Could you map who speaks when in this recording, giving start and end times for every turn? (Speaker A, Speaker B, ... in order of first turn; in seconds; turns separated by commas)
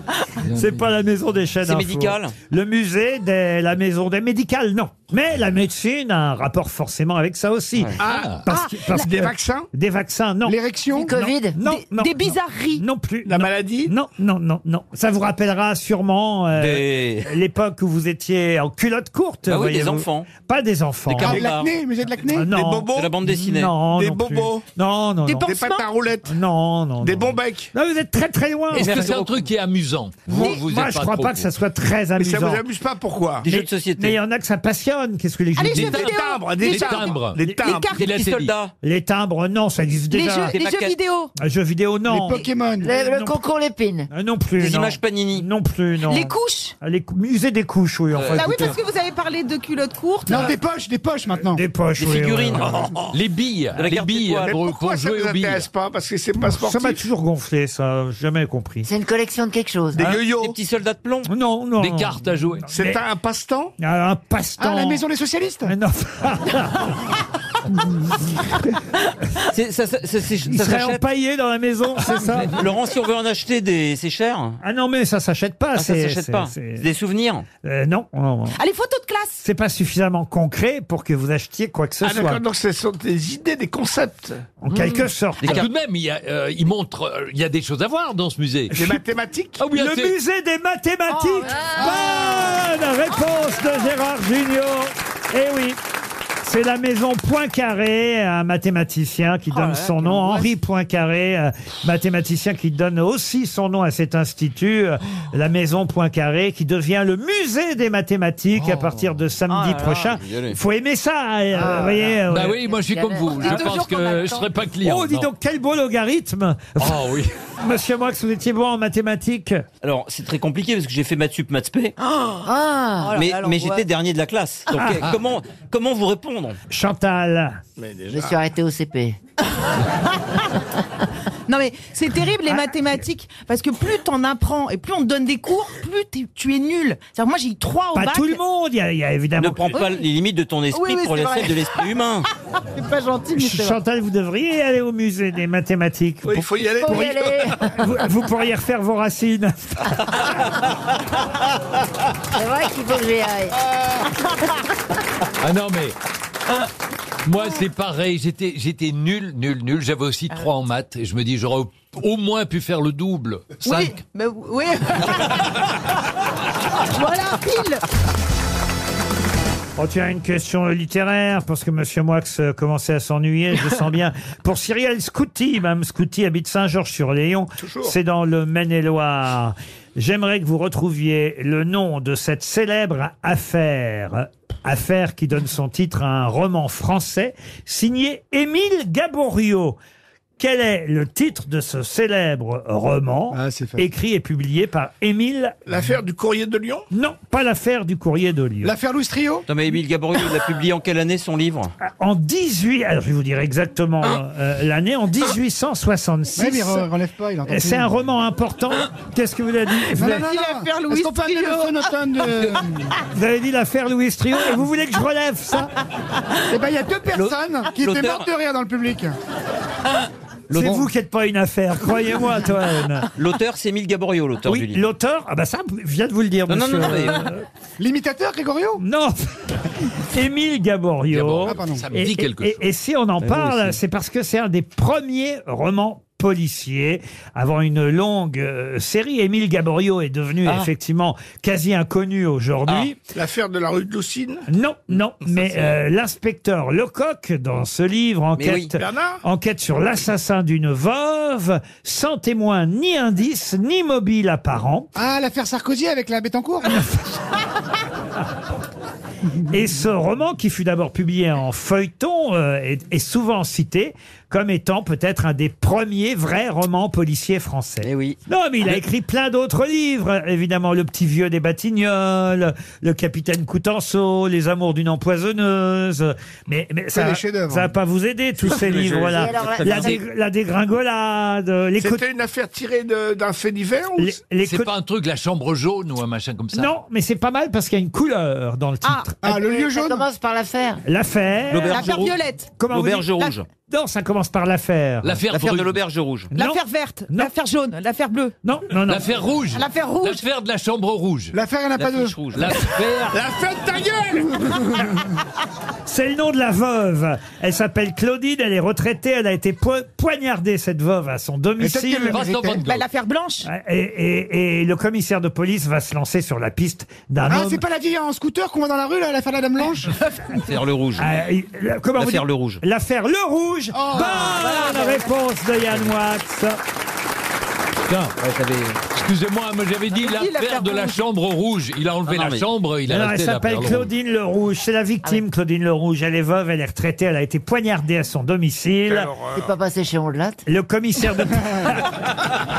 Speaker A: 0.4-0.8, Speaker B: 0.5-10.6, Speaker C: 1.6-2.3, Speaker D: 8.0-9.7, Speaker A: 8.1-8.4, Speaker E: 10.4-11.1, Speaker F: 10.9-11.6, Speaker B: 11.1-21.4, Speaker G: 11.6-12.8, Speaker D: 13.2-13.9, Speaker C: 16.5-17.3, Speaker C: 19.4-20.3, Speaker C: 21.1-21.7, Speaker E: 21.2-22.5, Speaker B: 22.3-25.5, Speaker D: 22.5-23.1, Speaker C: 22.9-23.8, Speaker D: 23.9-24.6, Speaker G: 25.2-25.8, Speaker D: 25.4-26.3, Speaker B: 26.2-29.1, Speaker D: 27.0-27.7, Speaker A: 28.7-31.5, Speaker C: 28.7-29.4, Speaker B: 30.3-32.6, Speaker D: 32.2-33.5, Speaker C: 33.4-34.1, Speaker B: 33.5-36.0, Speaker G: 35.5-38.3, Speaker A: 35.7-38.5, Speaker D: 35.9-37.9, Speaker C: 38.0-38.7, Speaker B: 38.8-40.5, Speaker G: 40.1-41.3, Speaker C: 40.5-41.0, Speaker B: 41.4-43.4, Speaker E: 42.1-42.9, Speaker F: 42.8-44.1, Speaker B: 44.1-48.8, Speaker C: 44.6-45.5, Speaker G: 46.1-46.7, Speaker C: 48.1-48.6, Speaker G: 48.3-50.5, Speaker E: 50.3-51.6, Speaker B: 51.5-52.9, Speaker C: 52.0-53.0, Speaker A: 53.1-55.7, Speaker C: 53.7-54.5, Speaker D: 54.4-57.0, Speaker B: 56.4-58.9, Speaker F: 58.8-60.0, Speaker D: 59.9-60.5, Speaker C: 60.0-61.3, Speaker B: 61.2-63.0, Speaker A: 61.8-62.7, Speaker D: 62.7-63.7, Speaker B: 63.8-65.0, Speaker E: 64.6-65.7, Speaker B: 65.7-67.1, Speaker C: 69.5-71.0, Speaker B: 70.4-72.6, Speaker C: 72.5-74.6, Speaker B: 74.6-76.9, Speaker C: 75.8-77.5, Speaker B: 77.6-78.6, Speaker G: 78.6-79.4, Speaker B: 79.4-82.4, Speaker D: 82.0-84.5, Speaker B: 84.6-85.7, Speaker C: 85.4-85.7, Speaker A: 85.5-88.7, Speaker B: 88.7-89.0, Speaker D: 88.7-89.6, Speaker A: 89.6-90.1, Speaker B: 89.7-95.8, Speaker G: 91.1-91.9, Speaker B: 96.4-112.6, Speaker G: 99.5-100.5, Speaker A: 108.6-109.0, Speaker G: 109.5-110.1, Speaker C: 109.8-110.5, Speaker A: 112.3-115.3, Speaker F: 112.7-113.3, Speaker G: 113.3-114.5, Speaker B: 114.8-117.0, Speaker A: 116.8-117.3, Speaker B: 117.6-119.6, Speaker C: 119.8-121.9, Speaker F: 122.4-123.3, Speaker G: 123.0-123.8, Speaker C: 123.1-126.6, Speaker B: 124.7-125.0, Speaker B: 126.7-127.6, Speaker D: 127.8-128.3, Speaker F: 128.1-129.2, Speaker G: 131.5-138.4, Speaker B: 137.9-139.8, Speaker C: 139.4-142.2, Speaker G: 139.7-140.0, Speaker G: 140.7-141.9, Speaker G: 142.7-143.8, Speaker B: 143.3-149.9, Speaker D: 146.2-147.5, Speaker F: 146.8-147.8, Speaker F: 152.3-153.6, Speaker A: 155.4-155.9, Speaker A: 157.2-164.0, Speaker G: 163.6-165.4, Speaker G: 166.9-167.8, Speaker B: 169.8-189.8, Speaker D: 177.6-177.9, Speaker B: 190.4-195.7, Speaker E: 193.3-193.8, Speaker D: 195.7-196.8, Speaker B: 196.9-198.7, Speaker E: 198.6-199.4, Speaker C: 199.5-201.7, Speaker B: 201.8-206.9, Speaker E: 206.3-207.9, Speaker B: 207.5-210.2, Speaker E: 209.9-212.9, Speaker G: 210.0-211.9, Speaker B: 213.1-215.7, Speaker E: 216.5-219.2, Speaker C: 217.1-218.3, Speaker C: 220.5-220.9, Speaker B: 220.5-223.1, Speaker C: 223.2-224.9, Speaker B: 224.4-227.4, Speaker C: 226.5-227.3, Speaker E: 227.8-228.8, Speaker B: 228.8-243.0, Speaker A: 231.1-232.6, Speaker E: 231.4-231.8, Speaker C: 233.2-233.7, Speaker D: 243.1-244.4, Speaker B: 244.5-254.9, Speaker C: 248.4-248.7, Speaker D: 248.8-249.2, Speaker E: 254.9-256.8, Speaker B: 256.7-257.1, Speaker B: 259.5-282.0, Speaker C: 267.8-268.2, Speaker E: 276.9-277.7, Speaker F: 279.1-280.0, Speaker D: 281.8-284.1, Speaker B: 284.0-284.7, Speaker A: 284.4-286.7, Speaker B: 286.5-289.2, Speaker E: 289.2-290.0, Speaker F: 289.3-290.8, Speaker B: 290.8-291.9, Speaker C: 291.5-293.5, Speaker G: 291.7-292.5, Speaker B: 292.6-295.2, Speaker A: 295.0-295.8, Speaker C: 295.3-296.3, Speaker B: 296.3-297.3, Speaker G: 296.3-298.3, Speaker B: 298.4-299.1, Speaker A: 298.9-301.4, Speaker G: 299.5-300.2, Speaker E: 301.3-302.2, Speaker C: 301.8-302.6, Speaker A: 302.3-303.2, Speaker D: 303.1-304.6, Speaker B: 305.9-312.2, Speaker E: 311.6-312.6, Speaker A: 312.1-312.9, Speaker G: 312.6-313.5, Speaker B: 313.4-317.6, Speaker E: 317.3-319.9, Speaker C: 320.3-321.1, Speaker B: 321.0-326.6, Speaker C: 322.0-322.6, Speaker E: 323.8-324.2, Speaker G: 323.9-325.1, Speaker A: 327.9-328.1, Speaker C: 328.2-328.8, Speaker A: 328.9-333.9, Speaker G: 329.9-331.0, Speaker C: 332.0-332.5, Speaker B: 332.9-339.1, Speaker D: 338.9-339.5, Speaker F: 339.3-340.4, Speaker B: 340.4-341.8